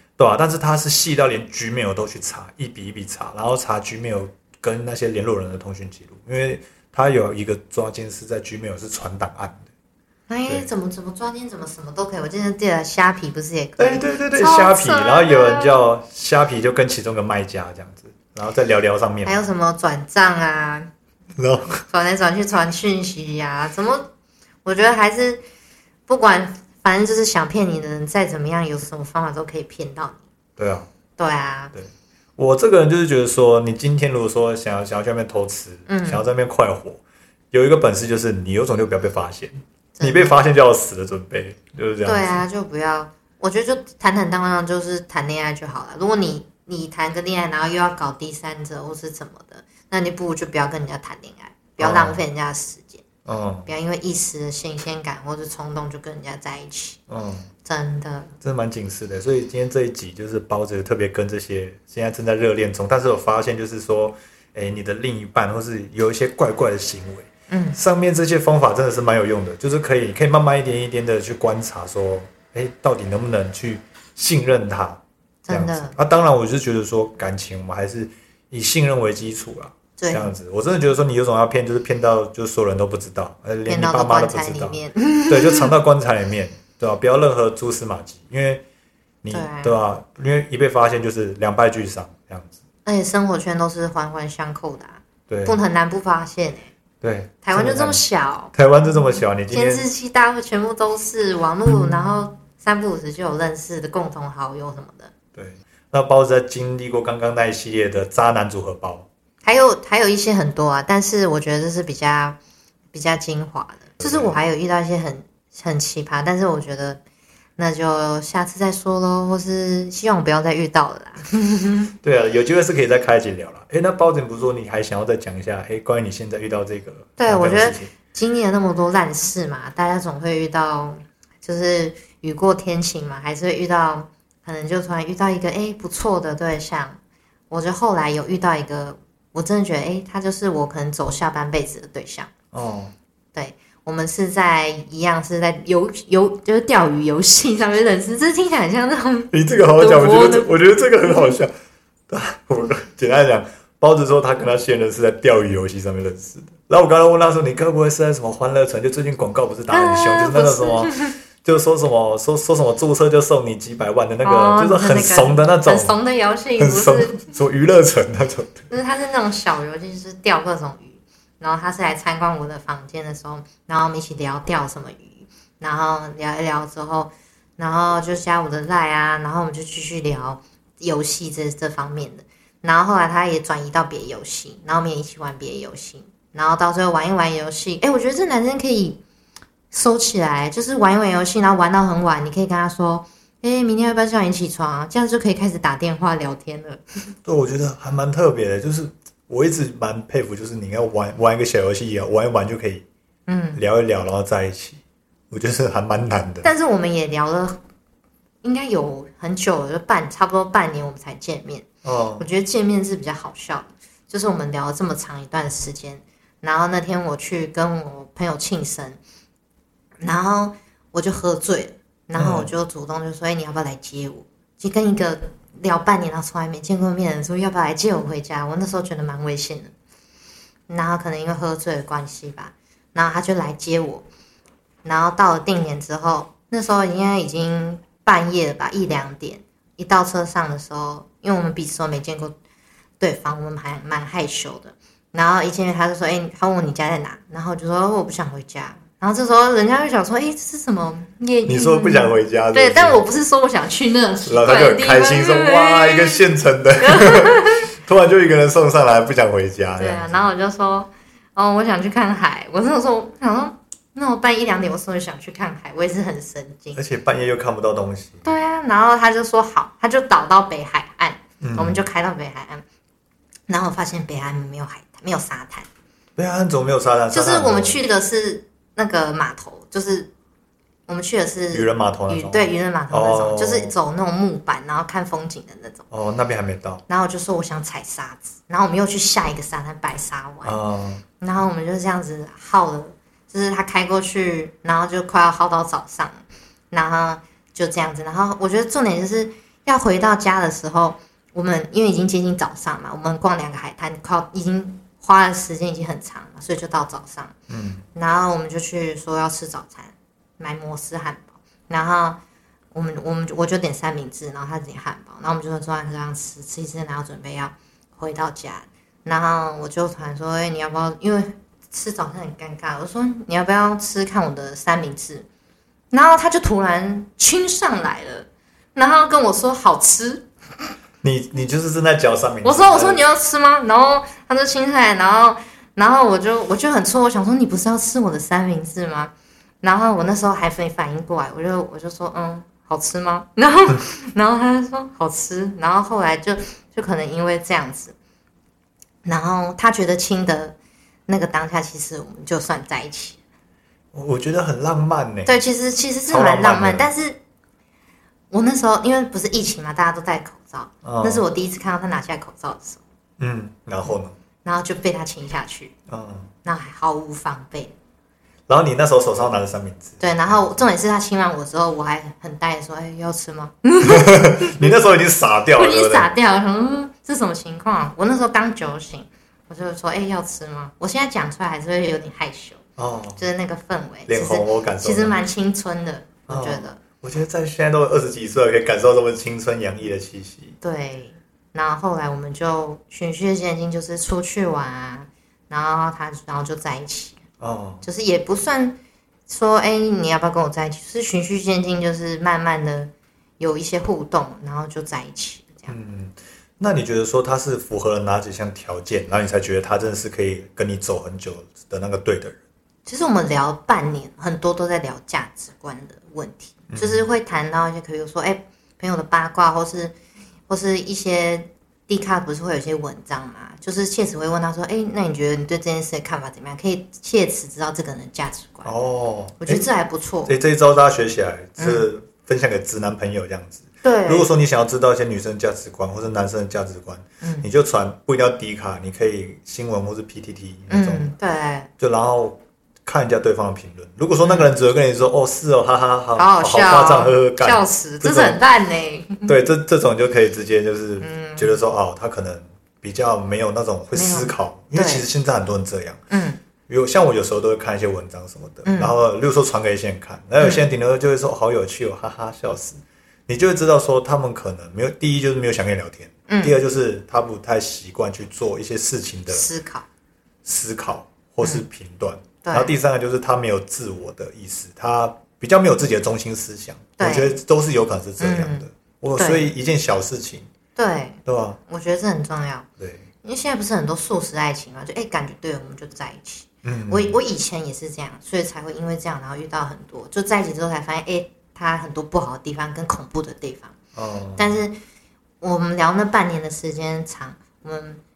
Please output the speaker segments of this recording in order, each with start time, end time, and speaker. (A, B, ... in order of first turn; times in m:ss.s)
0:00.2-0:09.7 A
0:10.3-0:15.8 B
0:13.8-0:19.4 A
0:19.2-0:20.9 B
0:21.4-0:21.8 A
0:21.9-0:24.1 B
0:24.6-0:25.4 B
0:26.1-0:30.2 B
0:30.6-0:30.9 A
0:31.2-0:31.7 B
0:31.7-0:42.4 A
0:35.9-0:36.2 B
0:40.0-0:40.4 B
0:42.0-0:53.0 B
0:51.8-0:52.2 A
0:53.2-0:53.7 A
0:53.6-0:57.0 B
0:57.1-0:57.5 A
0:57.6-0:58.3 B
0:58.4-1:28.6 A
1:07.5-1:07.8 B
1:15.4-1:16.0 B
1:20.0-1:20.3 B
1:23.6-1:25.7 B
1:29.2-1:32.6 A
1:29.3-1:29.8 B
1:32.8-1:36.7 B
1:35.3-1:35.6 A
1:37.0-1:38.0 A
1:37.4-1:45.1 B
1:38.5-1:39.8 A
1:45.3-1:49.1 A
1:49.4-1:52.4 B
1:52.9-1:57.0 B
1:54.0-1:54.4 A
1:57.6-2:01.9 B
2:02.0-2:07.9 A
2:07.2-2:17.0 B
2:17.5-2:22.3 B
2:22.5-2:22.9 A
2:23.3-2:30.5 B
2:29.3-2:31.5 A
2:32.1-2:46.0 A
2:39.7-2:41.1 B
2:44.2-2:47.3 B
2:46.6-2:48.7 A
2:48.7-3:09.0 B
3:09.7-3:16.8 B
3:17.2-3:22.8 A
3:23.3-3:23.6 B
3:23.6-3:26.5 A
3:26.4-3:27.6 B
3:28.4-3:31.7 B
3:31.8-3:32.3 A
3:32.2-3:39.0 B
3:40.0-3:49.7 B
3:42.2-3:42.5 A
3:50.7-3:54.0 B
3:54.8-4:02.4 B
4:03.0-4:16.2 B
4:11.4-4:13.0 A
4:14.2-4:20.2 A
4:16.8-4:17.7 B
4:19.8-4:26.8 B
4:26.7-4:28.3 A
4:28.2-4:32.6 B
4:31.4-4:31.8 A
4:33.5-4:35.7 B
4:36.2-4:37.8 A
4:37.1-4:40.1 B
4:40.9-4:45.8 B
4:41.5-4:43.7 A
4:45.9-4:46.8 A
4:46.9-4:50.5 B
4:50.4-4:51.0 A
4:51.2-5:07.3 B
5:07.5-5:07.8 A
5:07.9-5:12.2 B
5:12.7-5:25.2 B
5:25.9-5:30.3 B
5:31.0-5:33.0 A
5:32.4-5:48.0 B
5:49.0-5:50.6 B
5:51.1-5:53.2 B
5:53.9-5:55.4 A
5:55.2-5:57.2 B
5:56.1-5:56.9 A
5:58.3-6:02.8 B
6:00.8-6:01.2 A
6:03.2-6:04.2 A
6:04.4-6:05.7 B
6:05.9-6:06.3 A
6:06.4-6:07.7 B
6:08.5-6:10.6 A
6:10.0-6:14.8 B
6:13.8-6:16.1 A
6:15.5-6:22.6 B
6:22.8-6:23.2 A
6:23.2-6:26.8 B
6:24.1-6:25.2 A
6:26.3-6:30.6 A
6:30.6-6:37.2 B
6:37.4-6:37.8 A
6:37.8-6:45.7 B
6:45.7-6:52.4 A
6:52.8-6:59.9 B
6:56.7-6:57.0 A
7:00.5-7:08.7 B
7:08.6-7:09.6 A
7:09.4-7:10.3 B
7:10.2-7:21.1 A
7:11.6-7:11.9 B
7:13.8-7:14.3 B
7:20.7-7:21.7 B
7:21.8-7:28.4 A
7:24.2-7:24.5 B
7:26.2-7:29.3 B
7:29.2-7:36.0 A
7:31.0-7:31.6 B
7:33.9-7:35.0 B
7:36.1-7:36.4 B
7:36.7-7:49.5 A
7:38.6-7:39.0 B
7:40.4-7:40.7 B
7:46.3-7:46.5 B
7:49.3-7:49.8 B
7:50.4-8:00.5 A
7:52.4-7:52.7 B
7:57.0-7:57.4 B
7:58.2-7:59.5 B
8:00.8-8:02.7 B
8:01.2-8:01.6 A
8:02.8-8:03.0 A
8:03.2-8:13.8 B
8:06.6-8:07.2 A
8:13.9-8:14.6 A
8:14.4-8:14.8 B
8:15.4-8:18.0 B